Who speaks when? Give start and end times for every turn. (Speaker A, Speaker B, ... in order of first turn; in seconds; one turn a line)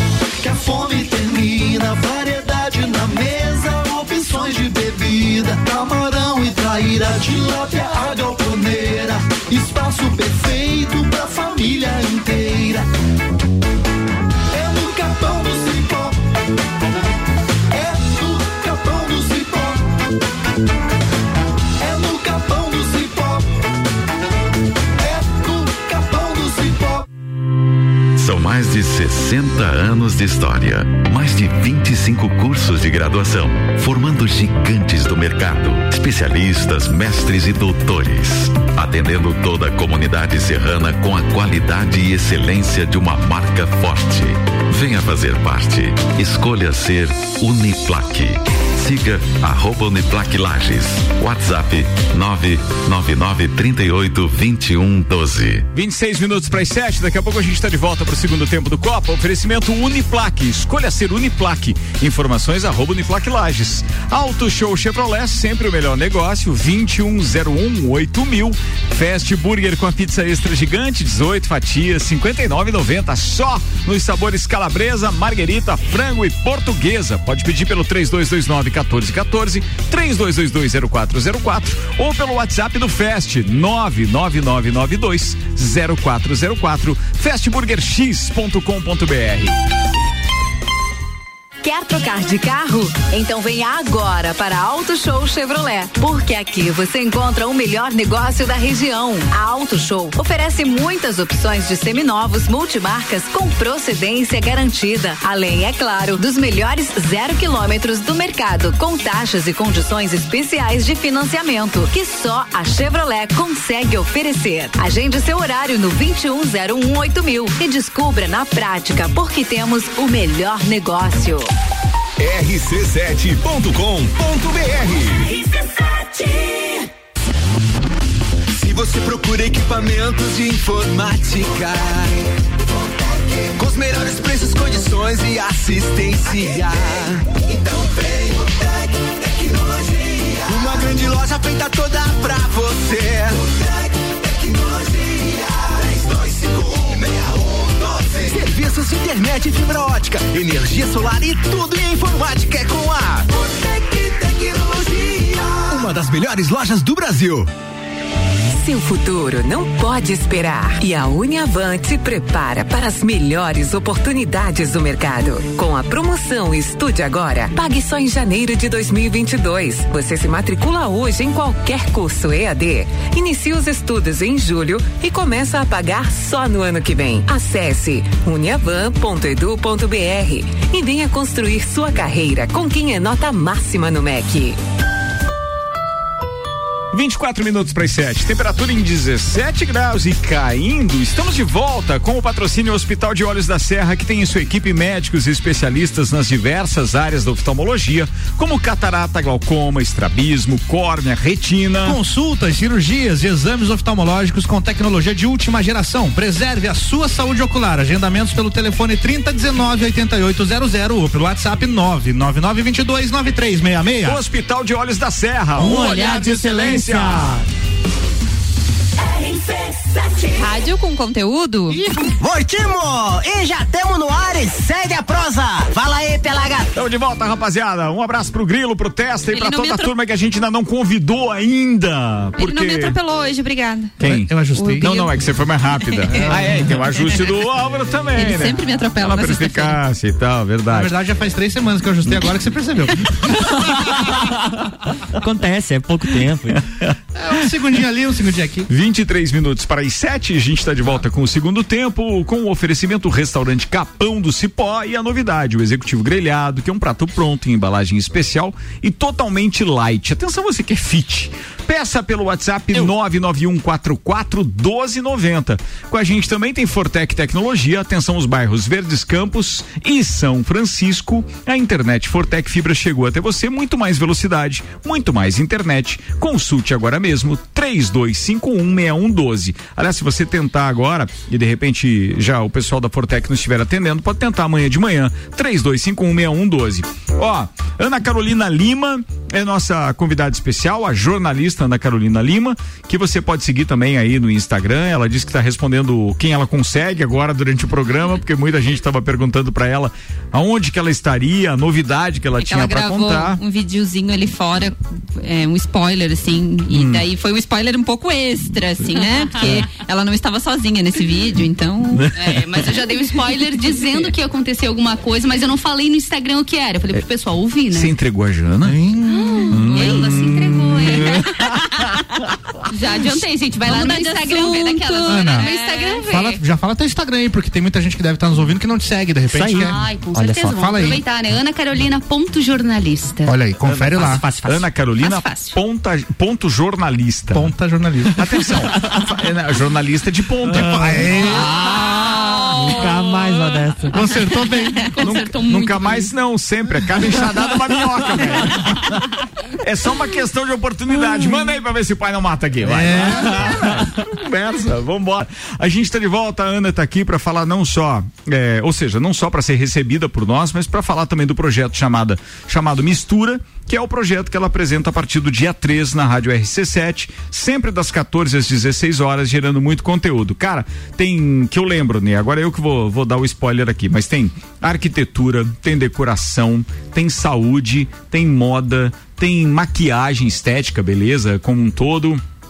Speaker A: 0.4-12.9
Speaker A: 14.5-16.2
Speaker A: 17.7-19.8
Speaker A: 21.8-23.5
Speaker A: 25.0-27.0
Speaker B: 28.1-55.7
Speaker C: 55.7-89.6
Speaker D: 91.6-121.5
Speaker E: 122.2-125.3
Speaker E: 128.5-132.2
Speaker E: 133.6-137.5
Speaker E: 140.4-143.4
Speaker E: 148.1-153.3
Speaker E: 154.1-157.5
Speaker F: 158.6-184.6
Speaker C: 186.9-202.0
Speaker G: 201.8-214.2
Speaker C: 214.0-217.3
Speaker H: 215.6-217.4
Speaker I: 220.4-221.8
Speaker G: 221.7-222.1
Speaker J: 222.2-226.7
Speaker C: 226.7-233.0
Speaker I: 229.3-229.9
Speaker I: 232.4-234.0
Speaker C: 234.0-240.9
Speaker G: 234.0-234.9
Speaker I: 234.5-235.2
Speaker I: 235.8-237.3
Speaker G: 236.2-236.7
Speaker I: 238.2-239.8
Speaker G: 240.7-243.6
Speaker H: 245.1-246.6
Speaker G: 247.1-248.7
Speaker C: 248.7-303.4
Speaker I: 302.4-312.2
Speaker C: 306.7-307.1
Speaker C: 309.4-309.7
Speaker C: 311.9-312.4
Speaker K: 312.1-317.9
Speaker C: 317.7-318.8
Speaker G: 318.6-319.9
Speaker K: 319.1-321.5
Speaker C: 319.5-321.4
Speaker G: 320.9-321.3
Speaker K: 322.7-326.4
Speaker I: 322.9-326.1
Speaker G: 325.1-325.5
Speaker G: 326.1-331.0
Speaker H: 329.3-330.2
Speaker K: 329.5-333.3
Speaker G: 333.2-334.2
Speaker C: 333.6-337.5
Speaker H: 334.0-334.6
Speaker K: 335.0-335.6
Speaker G: 337.3-338.5
Speaker C: 338.2-342.0
Speaker G: 340.5-341.5
Speaker H: 340.6-341.0
Speaker K: 341.7-343.0
Speaker H: 342.6-344.0
Speaker G: 343.9-344.9
Speaker K: 343.9-346.1
Speaker C: 345.0-348.8
Speaker C: 349.6-382.2
Speaker G: 352.6-353.8